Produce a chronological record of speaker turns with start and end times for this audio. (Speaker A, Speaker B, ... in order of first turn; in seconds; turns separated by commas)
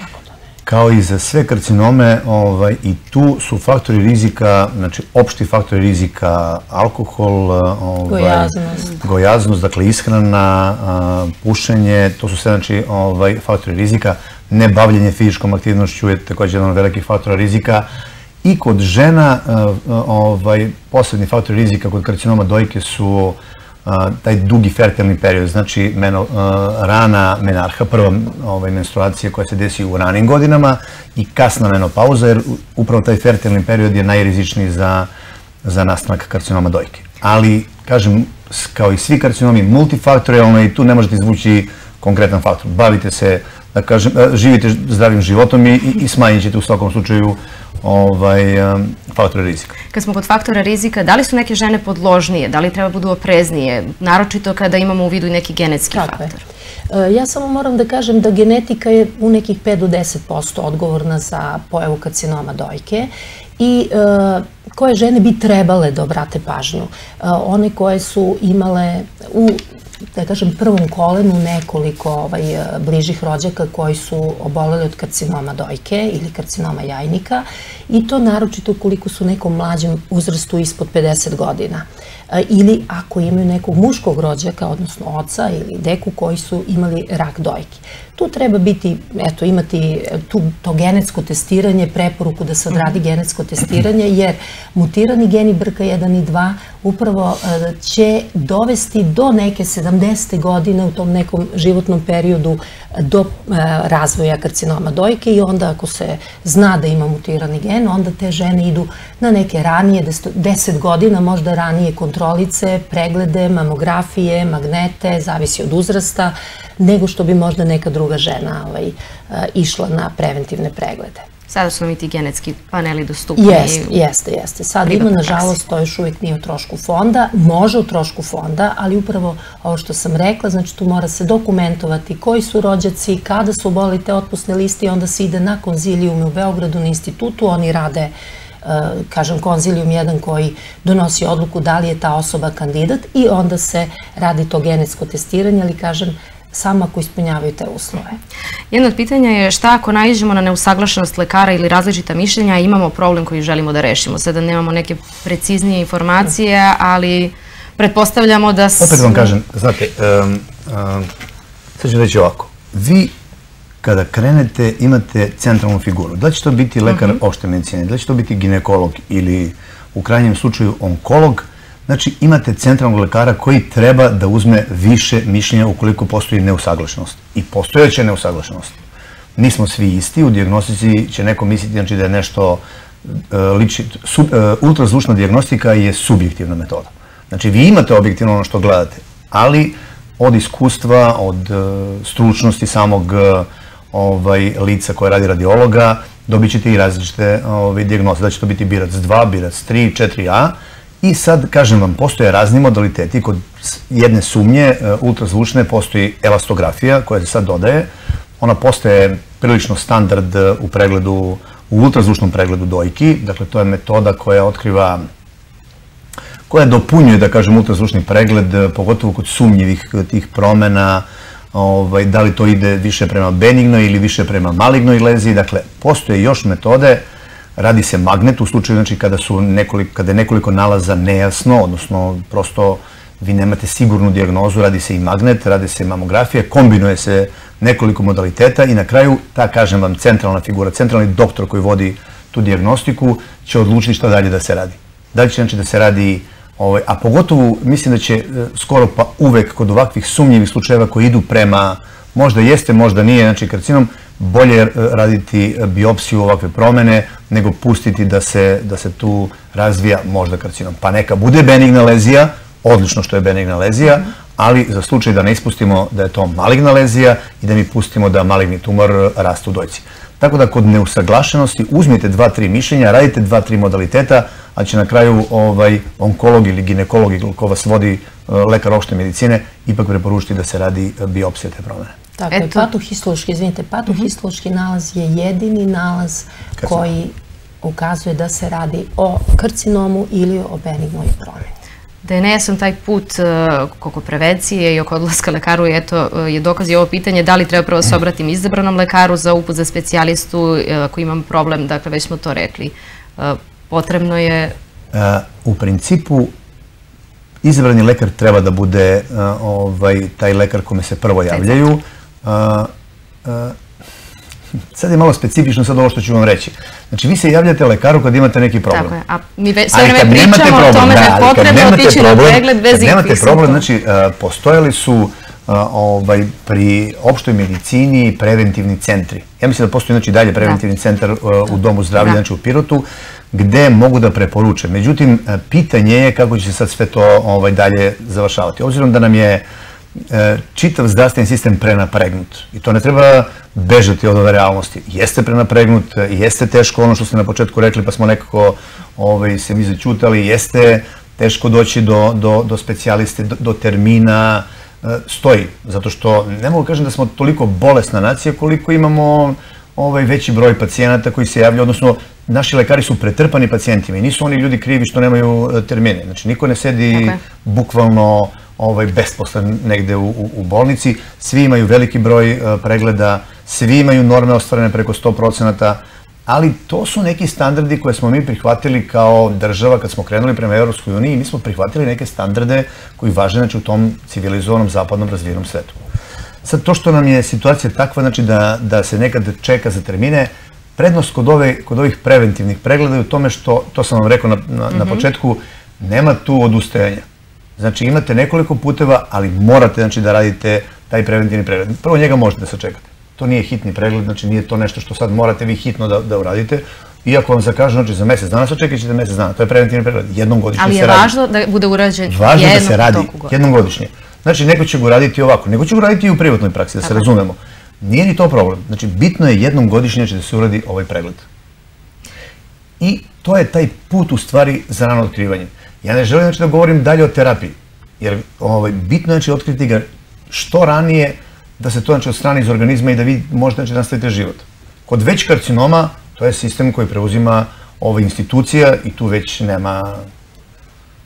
Speaker A: 0.6-17.9, Speaker B: 8.1-8.9, Speaker A: 18.4-35.1, Speaker A: 35.6-49.7, Speaker C: 49.9-56.4, Speaker B: 55.9-56.3, Speaker B: 56.9-69.6, Speaker B: 70.1-121.2, Speaker C: 121.5-123.9, Speaker B: 123.4-138.1, Speaker C: 124.9-125.5, Speaker B: 138.6-148.2, Speaker C: 148.7-159.3, Speaker A: 158.8-161.1, Speaker A: 161.8-163.1, Speaker A: 163.8-178.8, Speaker A: 179.3-215.0, Speaker A: 216.5-227.0, Speaker A: 227.6-281.9, Speaker B: 282.2-291.5, Speaker C: 282.3-282.6, Speaker C: 292.0-304.5, Speaker A: 304.9-306.3, Speaker A: 307.4-312.7, Speaker A: 313.2-313.6, Speaker A: 314.7-318.9, Speaker C: 318.7-323.6, Speaker A: 319.7-339.4, Speaker A: 339.9-385.8, Speaker A: 386.4-397.0, Speaker C: 394.7-395.0, Speaker A: 397.6-411.1, Speaker C: 410.6-413.3, Speaker A: 412.1-421.2, Speaker A: 422.8-440.1